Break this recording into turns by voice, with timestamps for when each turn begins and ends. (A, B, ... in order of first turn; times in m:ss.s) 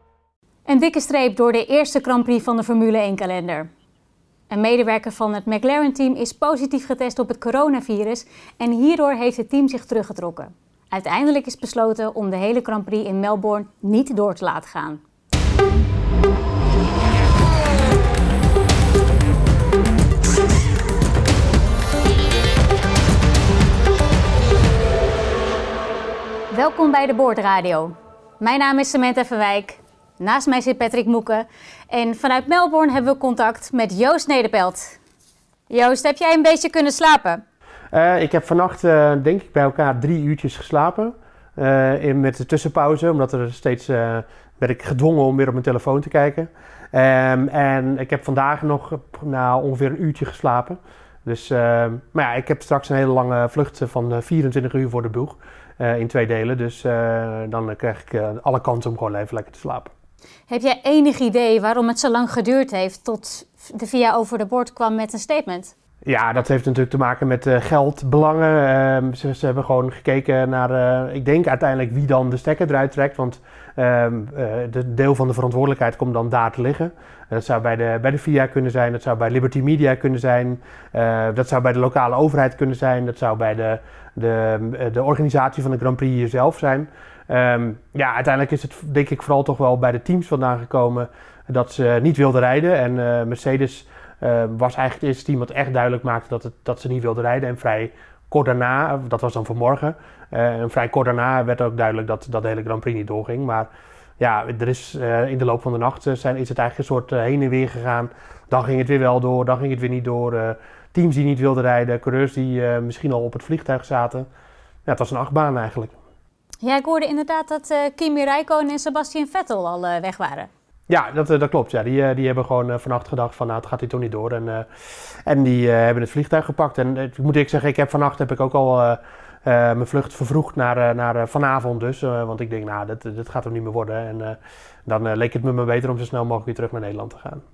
0:00.7-0:03.7 A
0:04.5-0:15.0 A
0:26.5-0:35.0 A
0:35.7-0:37.4 A
0:37.9-0:59.9 B
1:00.5-1:05.7 A
1:06.0-1:54.3 B
1:54.8-1:56.0 B
1:56.6-2:00.5 A
2:00.9-2:04.7 B
2:05.2-2:17.4 B